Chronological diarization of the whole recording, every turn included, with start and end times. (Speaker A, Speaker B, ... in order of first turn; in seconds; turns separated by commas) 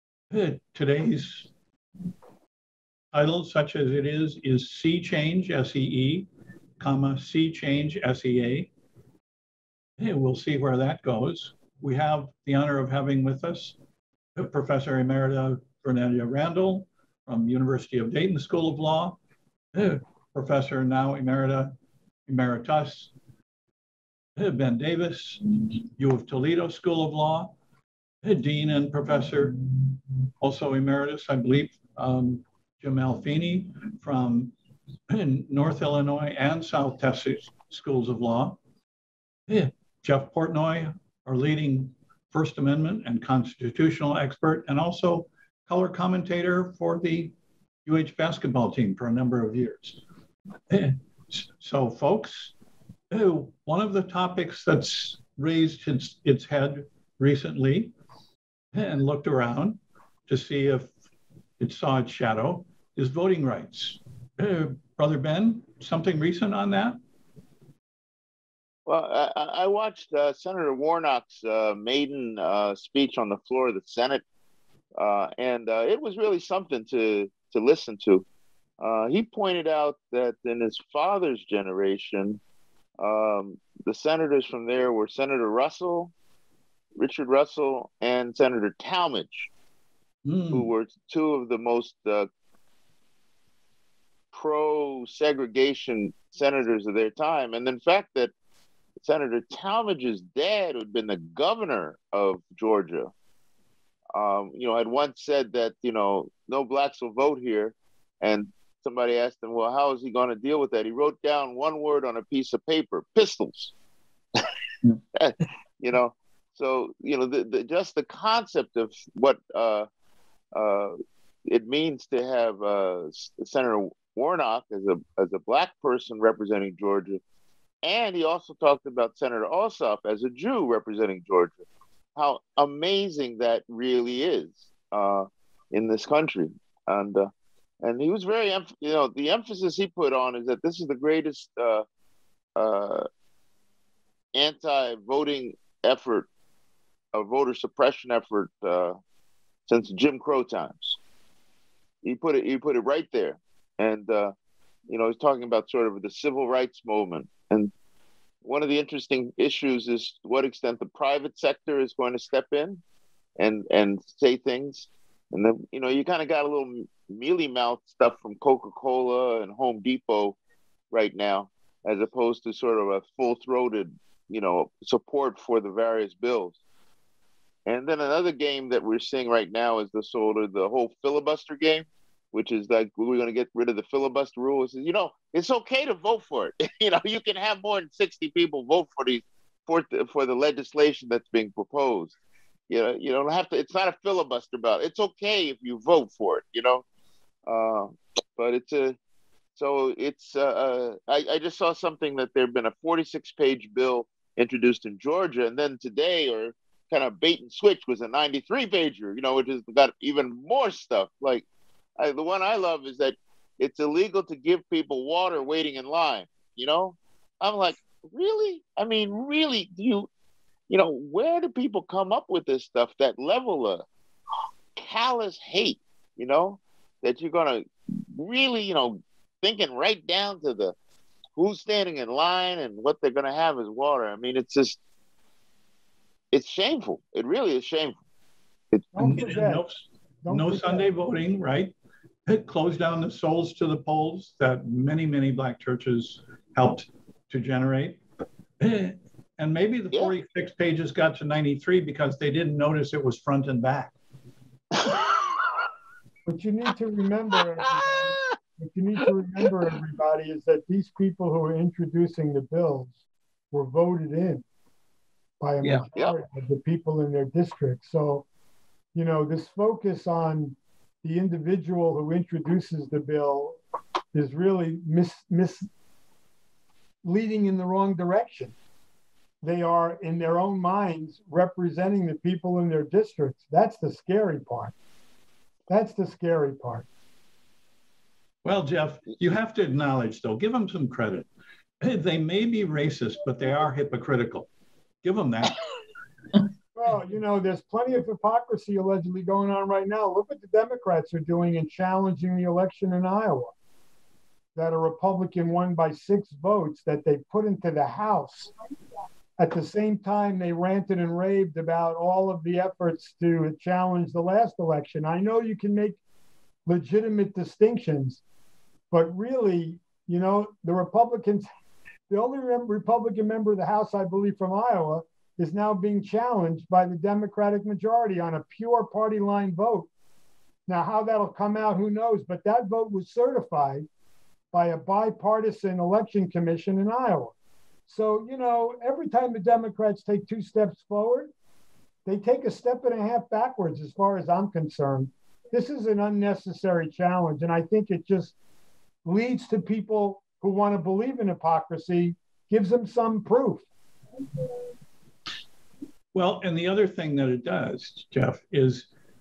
Speaker A: 0.3-1.5, Speaker A: 3.1-6.3, Speaker A: 6.8-8.7, Speaker A: 10.0-13.8, Speaker A: 14.4-19.2, Speaker A: 19.7-21.7, Speaker A: 22.3-23.1, Speaker A: 24.4-25.4, Speaker A: 26.0-27.5, Speaker A: 28.2-34.5, Speaker A: 35.1-38.6, Speaker A: 39.5-47.3, Speaker A: 47.9-50.0, Speaker A: 50.7-52.5, Speaker A: 53.1-57.9, Speaker A: 58.7-60.9, Speaker A: 61.6-67.0, Speaker B: 68.9-74.2, Speaker B: 75.0-78.2, Speaker B: 78.8-82.4, Speaker B: 83.0-86.1, Speaker B: 87.0-89.5, Speaker A: 90.3-90.7, Speaker B: 90.5-92.3, Speaker B: 94.3-98.3, Speaker B: 99.0-103.1, Speaker B: 104.2-113.7, Speaker B: 115.2-119.9, Speaker B: 120.5-120.9, Speaker B: 121.5-127.2, Speaker B: 127.8-131.6, Speaker B: 132.2-137.3, Speaker B: 137.8-141.8, Speaker B: 142.6-143.1, Speaker B: 144.3-146.3, Speaker B: 147.1-149.0, Speaker B: 149.7-151.0, Speaker B: 152.0-154.3, Speaker B: 154.9-157.7, Speaker B: 158.4-162.8, Speaker B: 163.4-170.4, Speaker B: 170.9-176.6, Speaker B: 177.7-192.1, Speaker B: 192.7-196.8, Speaker B: 197.5-199.0, Speaker B: 199.6-211.4, Speaker B: 212.0-220.1, Speaker B: 220.7-223.8, Speaker B: 224.8-230.7, Speaker B: 231.4-234.8, Speaker B: 236.3-238.0, Speaker C: 238.9-239.6, Speaker A: 239.0-241.7, Speaker C: 240.2-240.9, Speaker A: 242.3-248.0, Speaker A: 248.6-253.9, Speaker B: 254.8-255.1, Speaker C: 256.3-262.9, Speaker B: 257.9-258.4, Speaker C: 263.5-264.4, Speaker C: 265.4-268.2, Speaker C: 268.9-273.6, Speaker C: 274.1-275.7, Speaker C: 277.0-278.5, Speaker C: 279.4-284.7, Speaker C: 285.7-286.9, Speaker A: 288.4-291.3, Speaker A: 291.8-294.5, Speaker A: 295.0-295.6, Speaker C: 296.8-303.5, Speaker C: 304.6-308.5, Speaker C: 309.4-316.0, Speaker C: 316.7-318.2, Speaker C: 318.9-321.5, Speaker C: 322.1-329.9, Speaker C: 330.7-333.9, Speaker C: 334.5-337.3, Speaker C: 337.9-341.3, Speaker C: 342.1-348.3, Speaker C: 349.1-353.6, Speaker A: 356.1-358.9